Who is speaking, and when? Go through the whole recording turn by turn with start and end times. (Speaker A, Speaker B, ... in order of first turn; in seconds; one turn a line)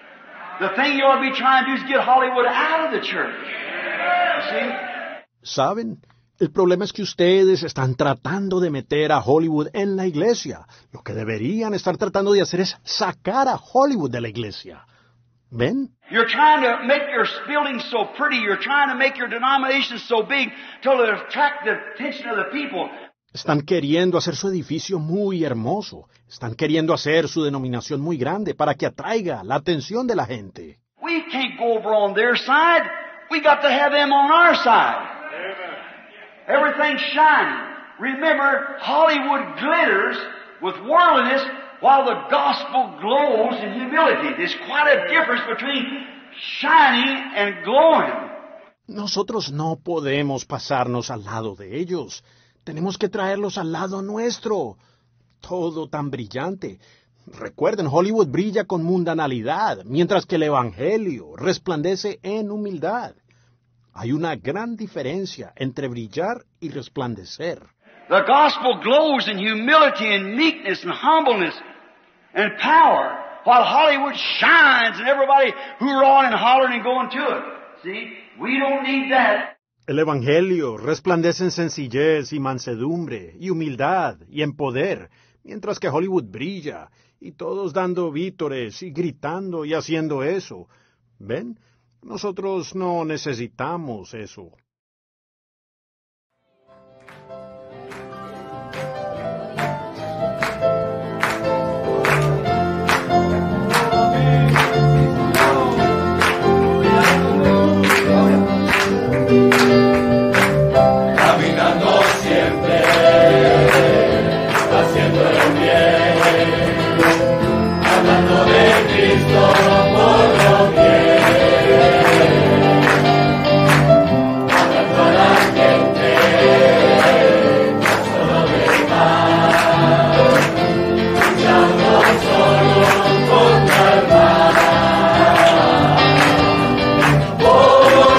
Speaker A: 0.6-3.4
Speaker A: 4.3-4.8
Speaker B: 5.4-14.8
Speaker B: 15.5-15.9
Speaker A: 16.1-22.9
Speaker B: 23.3-30.8
Speaker A: 31.0-35.1
Speaker A: 36.5-48.3
Speaker B: 48.9-54.8
Speaker B: 55.4-63.2
Speaker B: 64.0-67.7
Speaker A: 68.1-71.6
Speaker A: 72.3-79.5
Speaker B: 79.9-94.6